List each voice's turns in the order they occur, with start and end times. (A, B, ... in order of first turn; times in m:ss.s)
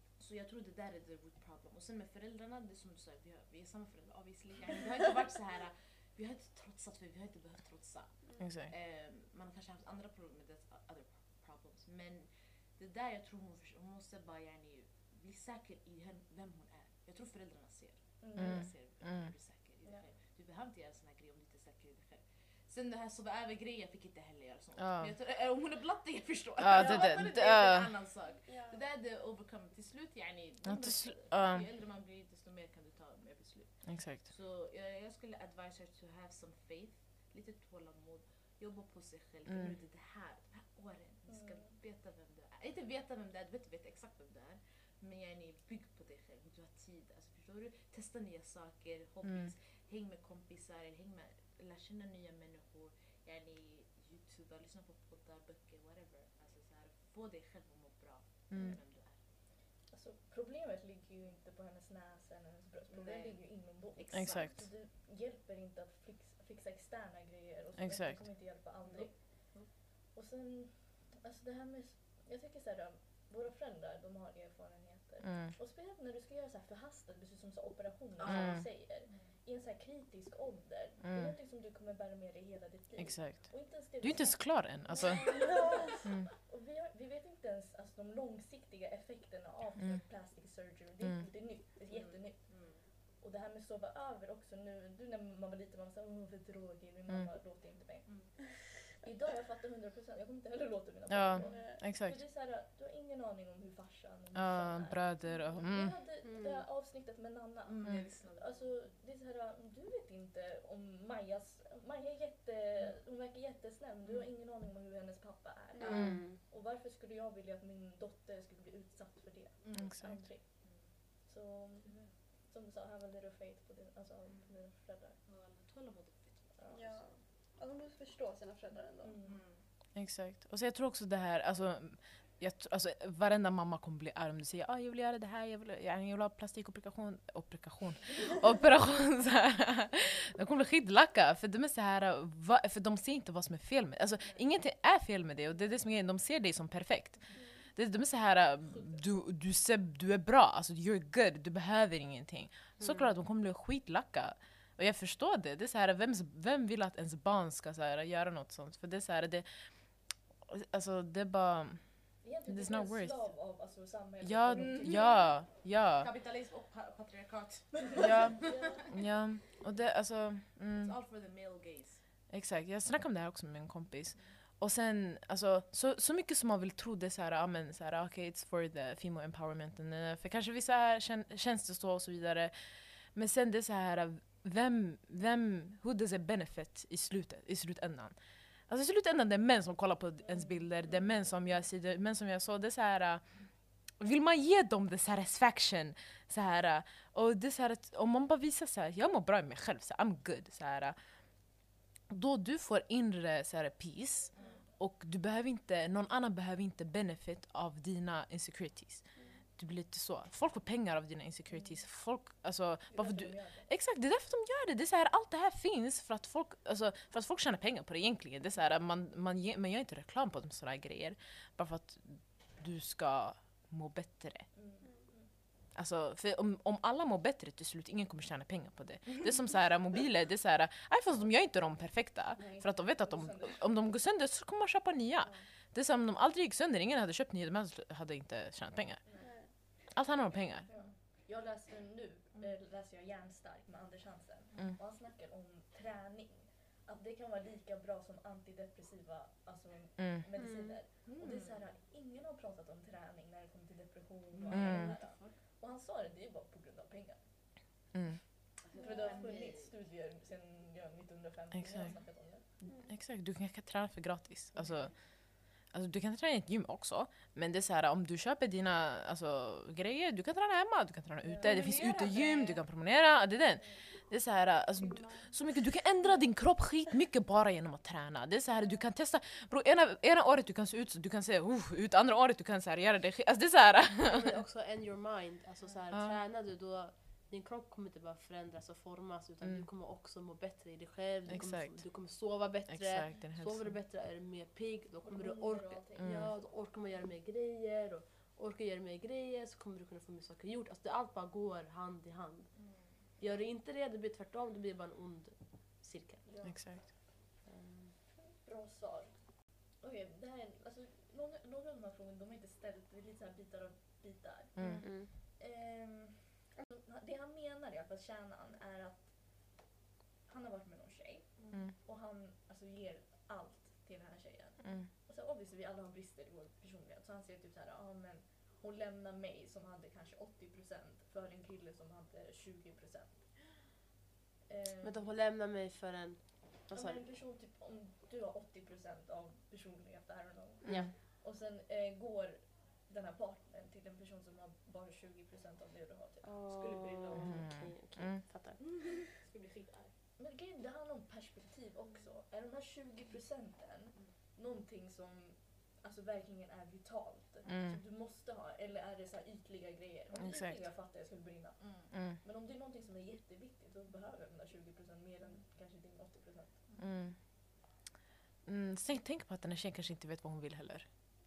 0:00.2-0:59.2 A
0:08.4-0:08.7 B
0:18.2-0:18.6 C
0:18.4-0:19.3 B
0:24.8-0:25.1 B
0:26.6-0:27.9 B
0:26.8-0:27.1 C
0:28.4-0:28.8 D
0:30.6-0:31.6 B
0:33.8-0:34.2 B
0:39.5-0:39.8 B
0:41.3-0:41.7 C
0:49.2-0:49.5 B
0:58.5-0:58.8 B
0:59.9-2:05.2 C
1:02.9-1:04.7 A
1:04.1-1:04.6 B
1:07.8-1:08.3 B
1:08.8-1:09.7 A
1:15.2-1:15.5 B
1:18.2-1:19.3 A
1:18.2-1:18.6 B
1:21.0-1:21.3 B
1:23.0-1:26.3 B
1:25.0-1:26.0 D
1:31.0-1:31.2 B
1:31.9-1:32.8 A
1:38.0-1:38.3 A
1:41.1-1:42.2 B
1:41.4-1:41.8 D
1:44.3-1:46.0 B
1:46.2-1:46.6 E
1:47.6-1:48.8 A
1:55.7-1:56.0 D
1:55.8-1:56.2 A
1:55.9-1:56.2 B
1:55.9-1:56.4 E
1:59.6-2:01.0 A
1:59.7-2:00.2 B
2:01.8-2:02.1 A
2:05.2-2:07.1 A
2:06.6-2:07.0 C
2:06.7-2:09.2 D
2:09.0-2:09.5 C
2:09.2-2:09.6 A
2:09.9-2:43.5 B
2:27.3-2:27.6 D
2:32.8-2:33.1 E
2:42.2-2:45.2 C
2:44.2-2:46.1 B
2:45.9-2:48.6 A
2:48.0-2:50.9 B
2:48.4-2:48.9 C
2:50.7-2:52.0 A
2:52.3-3:44.5 B
3:10.5-3:10.9 C
3:24.3-3:24.6 A
3:29.1-3:29.4 D
3:32.9-3:33.7 C
3:44.5-3:45.3 C
3:44.8-3:45.2 D
3:45.7-4:00.7 B
3:52.4-3:53.6 C
3:59.0-3:59.8 C
3:59.2-3:59.6 D
4:00.7-4:17.3 C
4:10.0-4:10.2 B
4:10.4-4:10.8 E
4:11.0-4:11.7 A
4:14.3-4:15.4 A
4:14.5-4:15.0 B
4:17.9-4:18.2 B
4:18.6-4:19.7 A
4:18.7-4:22.4 C
4:18.7-4:19.3 D
4:21.5-4:44.3 B
4:22.7-4:22.9 D
4:24.6-4:25.0 A
4:31.2-4:31.9 C
4:31.4-4:32.6 A
4:34.8-4:35.3 D
4:44.1-5:06.7 E
4:45.9-4:46.2 B
4:49.4-4:49.7 B
4:51.3-4:51.8 B
4:52.6-4:53.8 B
4:55.0-4:56.4 C
4:56.0-4:56.3 B
5:02.6-5:03.0 A
5:06.2-5:07.0 C
5:06.4-5:06.9 B
5:07.4-5:08.0 E
5:08.1-5:19.6 C
5:14.6-5:15.0 B
5:14.6-5:15.1 E
5:20.2-5:33.5 C
5:21.4-5:21.6 A
5:24.6-5:24.9 B
5:34.5-5:35.1 C
5:34.8-5:37.0 E
5:36.7-5:47.4 C
5:40.6-5:40.9 B
5:40.6-5:40.9 E
5:46.2-5:48.6 E
5:46.6-5:47.2 A
5:47.2-5:48.2 B
5:48.6-5:49.9 A
5:50.2-6:06.8 C
5:57.4-5:57.8 B
6:00.2-6:00.7 B
6:01.6-6:01.9 A
6:01.9-6:02.2 B
6:06.8-6:07.3 B
6:08.4-6:10.9 B